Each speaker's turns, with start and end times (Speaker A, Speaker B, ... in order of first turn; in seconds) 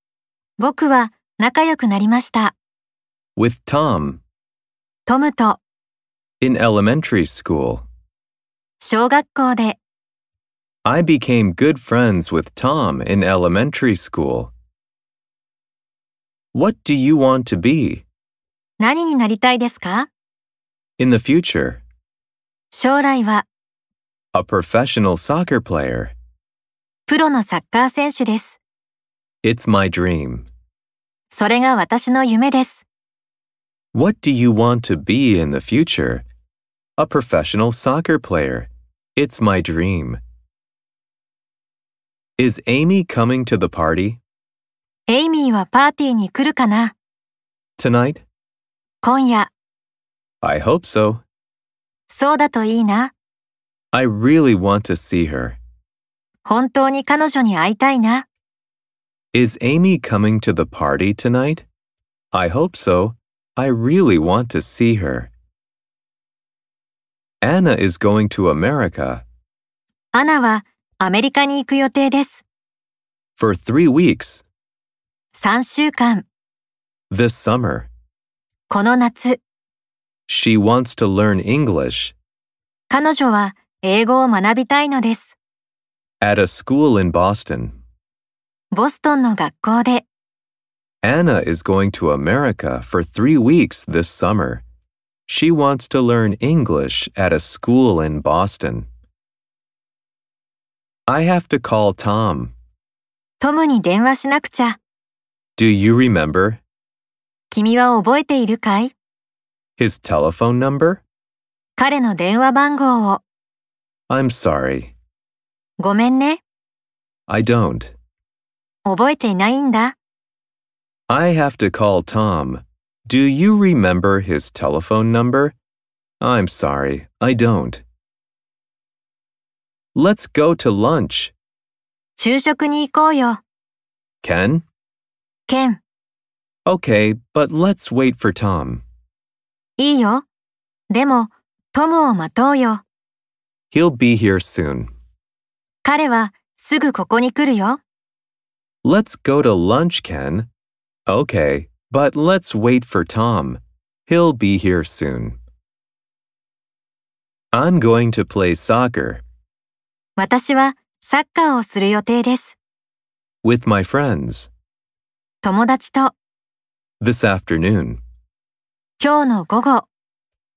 Speaker A: 0.6-2.5, 5.1-5.6, 8.8-9.8, 18.8-20.1, 22.7-23.5, 27.1-28.6, 31.3-32.9, 45.1-47.0, 49.0-49.5, 52.1-53.1, 56.5-58.3, 70.1-72.4, 75.3-76.3, 78.7-79.4, 82.9-85.3, 88.7-90.0, 103.4-104.8, 107.5-108.9, 111.8-113.2, 115.8-116.4, 118.9-120.0, 132.2-133.4, 135.5-135.8, 139.8-140.2, 140.9-142.8, 145.8-147.8, 160.2-162.6, 165.4-166.1, 169.0-169.9
Speaker B: 3.4-4.2, 6.4-7.9, 10.8-14.5, 16.5-18.1, 21.0-21.8, 24.3-26.1, 29.4-30.5, 33.9-36.2, 37.0-40.2, 42.4-44.2, 47.8-48.2, 50.4-51.2, 53.9-55.6, 59.3-61.7, 62.3-65.3, 67.4-69.2, 73.4-74.4, 77.1-77.9, 80.3-82.2, 86.2-87.8, 91.0-94.6, 95.3-98.9, 101.1-102.5, 105.6-106.6, 109.8-111.0, 114.1-114.9, 117.3-118.0, 121.1-125.5, 126.2-127.8, 129.9-131.3, 134.2-134.6, 136.7-138.8, 143.7-144.9, 148.8-150.5, 151.1-155.4, 157.5-159.2, 163.4-164.5, 167.0-168.0